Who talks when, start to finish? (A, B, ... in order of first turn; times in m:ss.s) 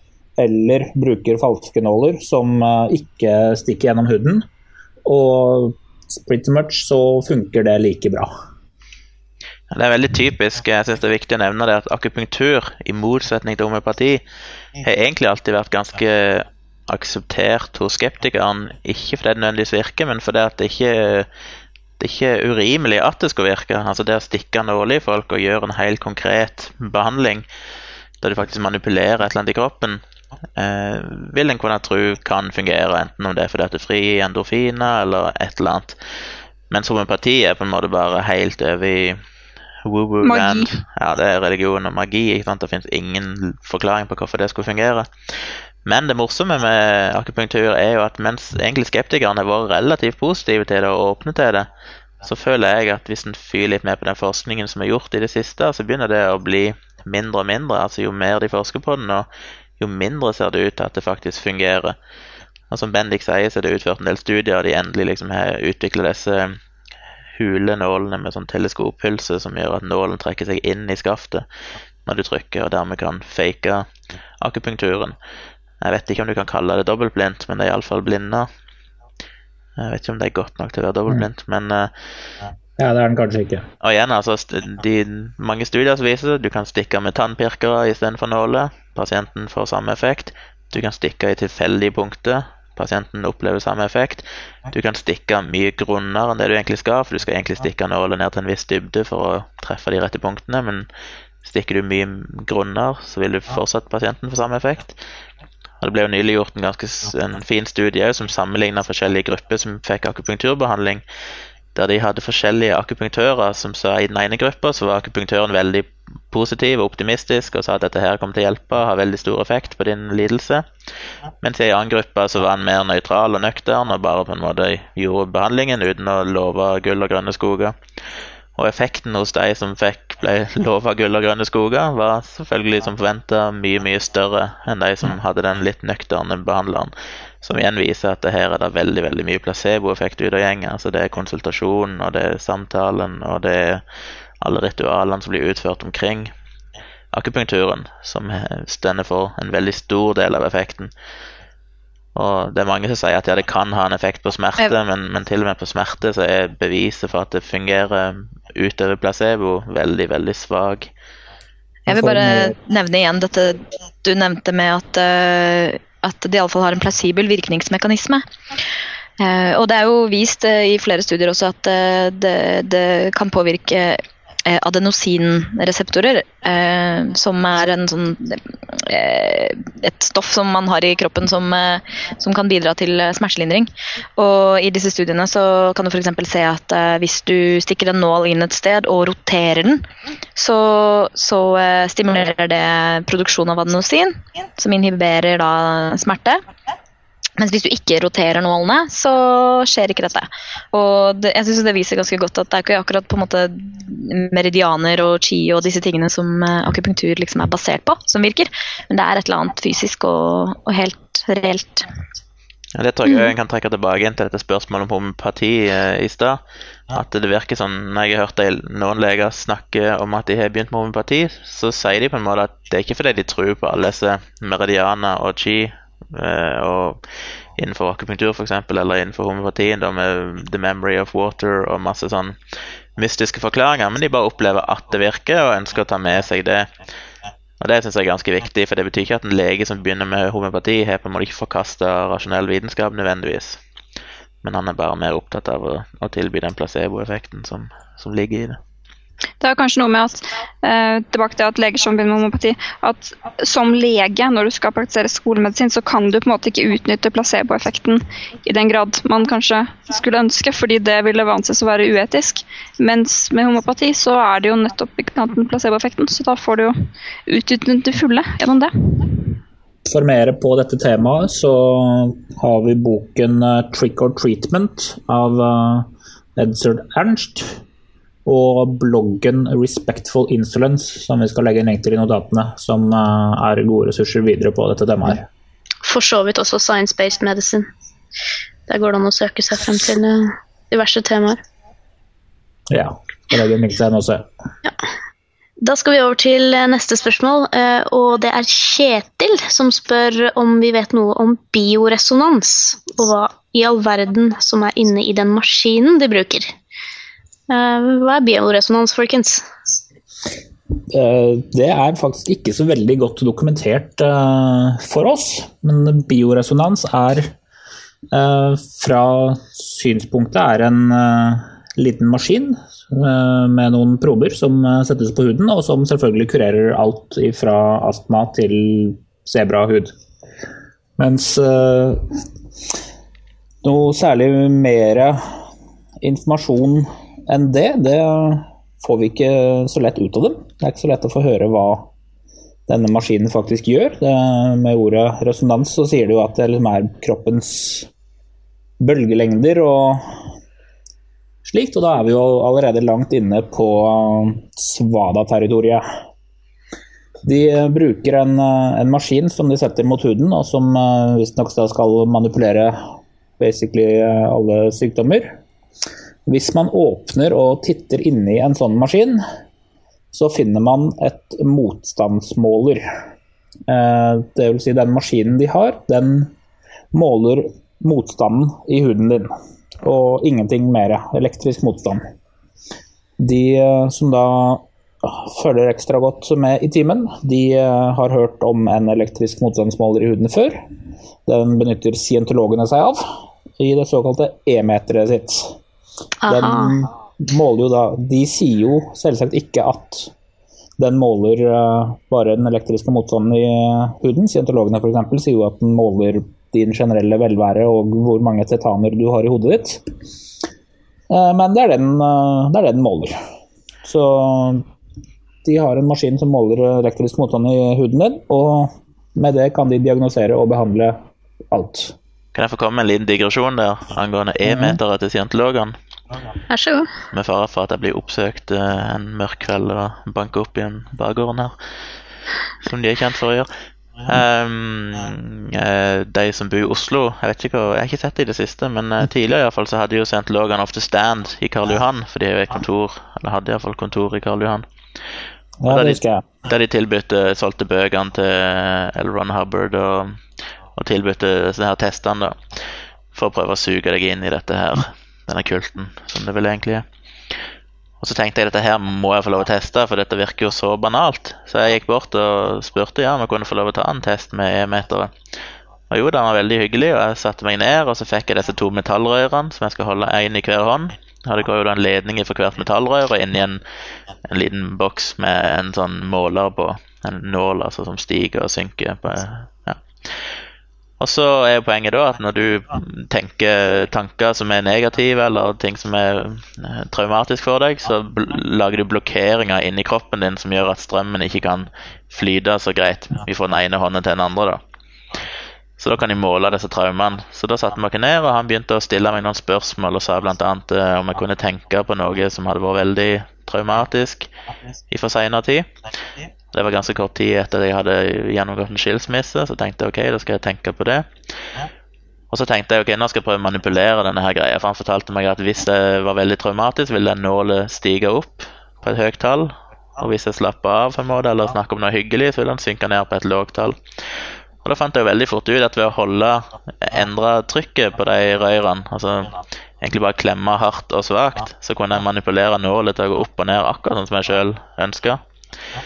0:00.4-0:04.5 A
0:05.0-0:08.3 A
0:09.7-0:14.2 B
0:14.8-0:21.3 B
0:22.0-0:27.4 B
0:28.2-0:30.0 B
0:30.6-0:36.0 B
0:36.7-0:39.2 B
0:39.8-0:45.1 B
0:40.2-0:40.7 C
0:45.8-0:51.7 B
0:52.2-0:59.3 B
0:59.8-1:02.0 B
1:02.7-1:06.6 B
1:07.3-1:11.4 B
1:12.0-1:13.9 B
1:14.4-1:15.2 B
1:15.8-1:18.5 B
1:19.8-1:21.9 B
1:22.8-1:23.7 A
1:23.8-1:40.9 B
1:41.4-1:45.0 B
1:45.8-1:51.0 B
1:51.7-2:00.7 B
2:01.4-2:07.7 B
2:08.6-2:23.8 B
2:24.4-2:26.3 B
2:27.1-2:30.9 B
2:32.1-2:40.9 B
2:41.9-2:42.5 A
2:41.9-2:48.2 D
2:49.2-3:09.8 D
3:10.4-3:16.4 D
3:17.4-3:31.9 D
3:32.7-3:47.0 B
3:47.6-3:52.4 B
3:53.0-3:56.7 B
3:57.6-4:03.6 B
4:04.4-4:08.6 B
4:09.4-4:26.7 C
4:27.3-4:29.2 C
4:29.9-4:37.6 A
4:38.2-4:45.3 A
4:45.8-4:47.7 E
4:48.7-4:51.4 E
4:52.7-4:54.3 A
4:55.6-5:06.5 E
5:07.5-5:09.5 E
5:10.9-5:17.3 A
5:18.1-5:29.9 A
5:31.0-5:32.0 A
5:33.6-5:35.2 A
5:36.0-5:41.9 A
5:42.7-5:47.9 A
5:48.8-5:50.2 A
5:51.4-5:55.8 A
5:57.2-6:02.8 A
6:03.4-6:05.4 A
6:06.3-6:09.2 A
6:10.1-6:12.8 A
6:13.7-6:16.3 A
6:16.9-6:22.0 A
6:23.2-6:30.6 A
6:31.2-6:35.6 A
6:36.2-6:36.8 E
6:36.3-6:40.1 A
6:40.8-6:49.8 A
6:51.1-6:53.2 A
6:53.8-6:54.6 A
6:55.4-7:01.9 A
7:02.3-7:05.7 B
7:04.5-7:04.8 A
7:06.5-7:06.9 E
7:07.1-7:11.6 B
7:12.6-7:13.5 B
7:14.0-7:24.6 B
7:25.6-7:26.3 A
7:25.7-7:30.2 B
7:30.8-7:32.5 B
7:33.1-7:36.8 B
7:38.0-7:45.1 B
7:45.9-7:53.6 B
7:54.2-8:00.2 B
8:01.0-8:14.6 B
8:15.8-8:24.3 B
8:24.9-8:25.7 B
8:26.5-8:31.1 B
8:32.3-8:43.8 B
8:44.6-8:55.2 B